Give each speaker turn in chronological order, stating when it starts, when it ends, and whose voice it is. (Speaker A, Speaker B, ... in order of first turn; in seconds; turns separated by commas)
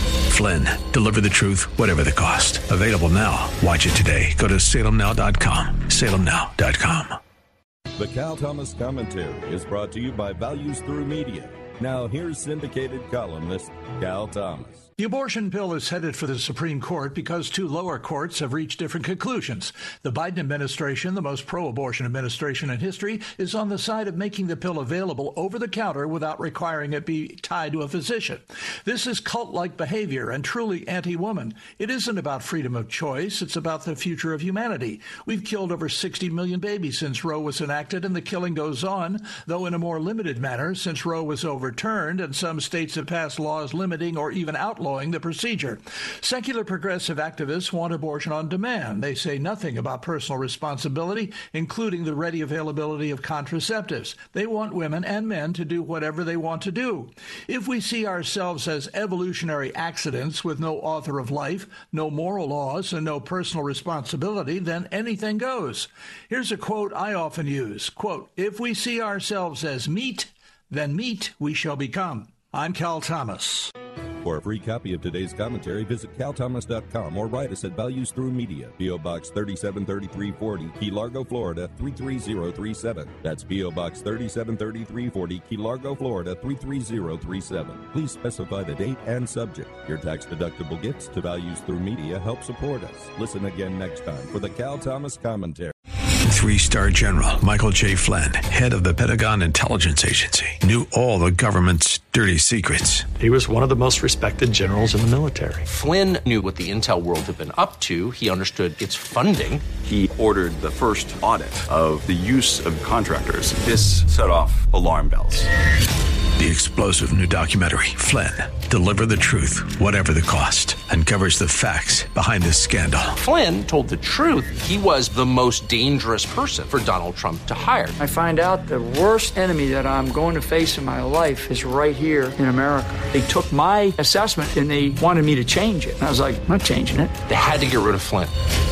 Speaker A: 0.3-7.2, Speaker B: 8.0-14.9, Speaker C: 15.0-73.7, Speaker B: 74.2-95.7, Speaker A: 96.2-103.1, Speaker D: 103.2-105.6, Speaker E: 105.7-109.6, Speaker F: 109.8-115.5, Speaker A: 116.4-123.2, Speaker E: 123.2-128.0, Speaker G: 128.0-137.1, Speaker E: 137.3-138.3